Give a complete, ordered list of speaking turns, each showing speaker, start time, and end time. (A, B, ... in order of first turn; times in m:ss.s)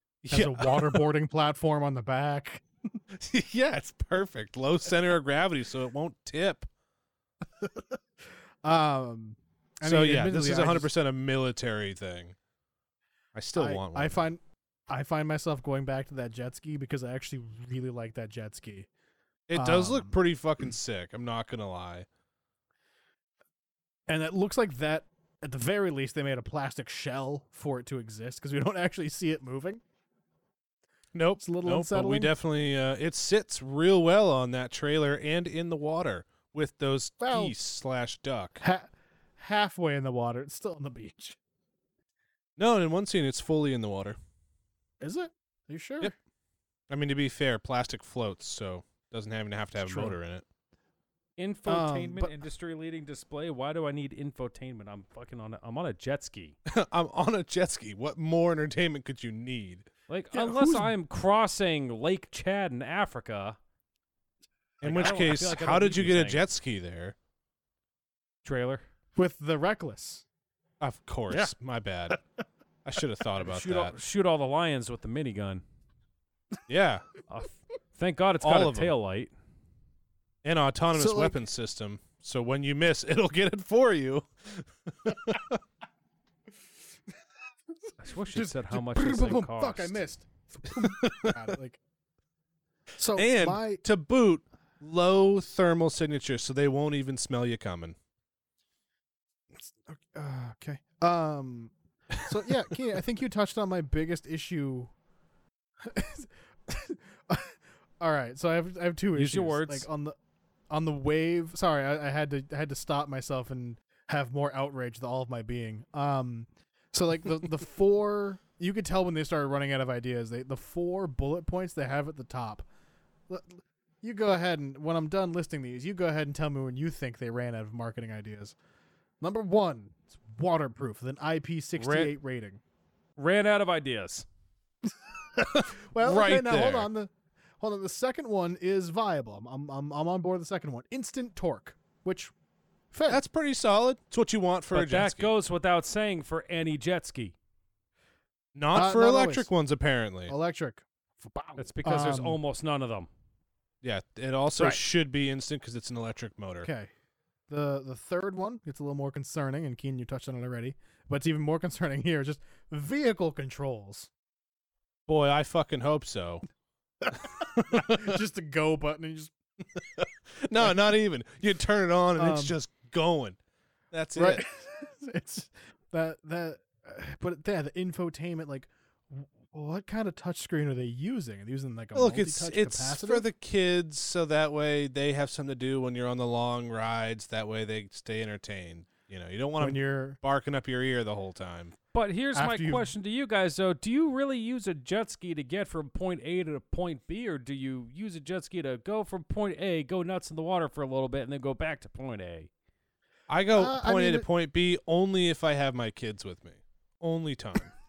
0:00.2-0:01.0 A
0:00.3-0:02.6 B
0:03.1-0:06.7 A
0:07.6-0:08.0 B
0:08.6-0:10.9 B
0:09.8-0:12.4 A
0:13.3-0:14.2 A
0:13.6-0:18.9 B
0:19.5-0:22.1 A
0:19.5-0:20.2 B
0:24.1-0:29.8 B
0:31.1-0:38.6 A
0:31.4-0:32.3 B
0:37.2-0:37.5 B
0:38.6-0:41.4 B
0:42.6-0:44.2 A
0:45.0-0:46.1 B
0:46.9-0:50.4 A
0:49.8-0:50.2 B
0:51.4-0:56.6 C
0:51.6-0:52.3 B
0:56.6-0:59.9 A
1:00.1-1:03.6 C
1:00.3-1:00.9 B
1:04.8-1:06.4 C
1:04.8-1:07.2 A
1:08.4-1:08.8 C
1:09.2-1:10.2 B
1:10.8-1:12.2 A
1:12.8-1:13.9 A
1:13.4-1:15.6 C
1:16.7-1:17.1 A
1:17.3-1:19.3 C
1:18.4-1:18.9 A
1:20.4-1:25.6 A
1:20.9-1:21.4 B
1:27.9-1:31.8 B
1:28.0-1:30.0 C
1:30.7-1:31.3 A
1:33.0-1:33.8 B
1:33.2-1:38.0 A
1:39.5-1:41.7 B
1:42.2-1:44.9 B
1:45.8-1:50.1 B
1:49.2-1:49.9 C
1:50.7-2:02.6 B
2:03.3-2:08.5 B
2:09.2-2:12.6 B
2:11.8-2:12.1 C
2:13.2-2:14.2 C
2:14.8-2:22.3 B
2:15.5-2:16.9 A
2:22.9-2:23.2 B
2:23.1-2:25.3 A
2:24.7-2:27.3 C
2:28.5-2:30.3 A
2:28.7-2:29.5 B
2:30.3-2:32.4 B
2:31.6-2:33.1 C
2:33.8-2:36.7 A
2:36.6-2:36.9 B
2:37.5-2:44.1 B
2:45.1-2:46.4 A
2:47.0-2:49.3 B
2:47.2-2:48.1 A
2:49.8-2:53.4 A
2:52.2-2:52.6 B
2:53.9-2:54.4 A
2:54.2-3:03.2 B
3:01.9-3:11.8 A
3:09.6-3:10.2 B
3:11.9-3:22.5 C
3:12.3-3:12.9 B
3:23.3-3:27.7 A
3:23.5-3:24.3 B